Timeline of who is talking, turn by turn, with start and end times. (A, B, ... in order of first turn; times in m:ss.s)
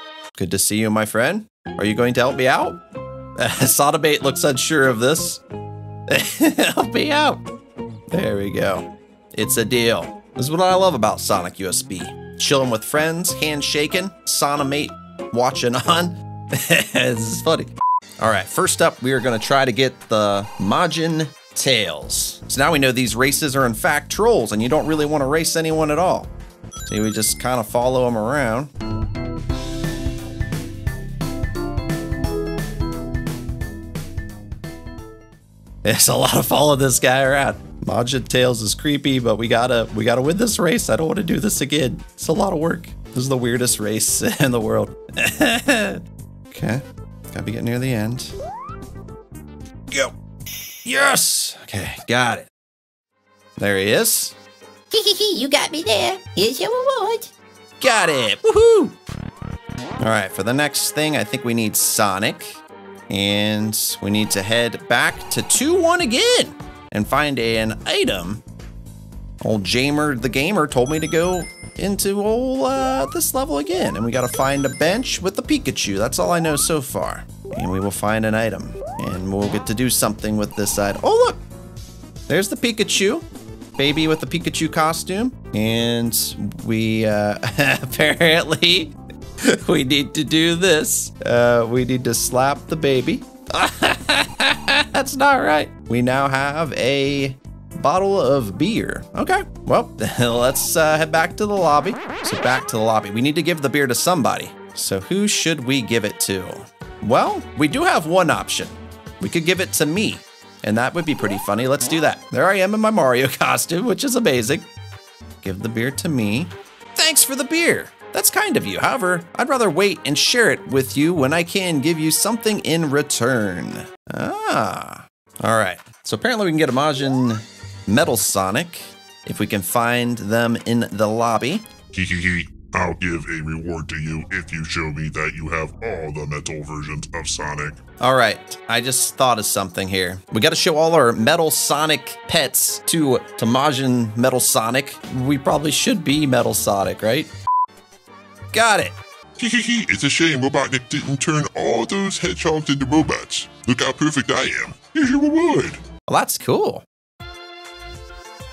0:00.3-0:02.8 A
0:03.4-0:05.4 A
0:06.1-0:07.4 A
0:08.1-0:26.3 A
0:26.8-0:28.7 A
0:35.8-0:48.3 A
0:49.9-0:50.1 A
0:50.8-0:52.5 A
0:53.6-0:54.3 A
0:54.9-0:57.3 B
0:57.8-0:58.9 A
1:00.0-1:08.4 A
1:09.4-1:21.4 A
1:22.3-1:23.2 A
1:23.8-1:54.6 A
1:55.4-2:11.6 A
2:11.9-2:17.8 C
2:18.0-2:27.3 A
2:28.5-2:29.0 A
2:29.4-2:35.8 C
2:36.1-2:36.8 A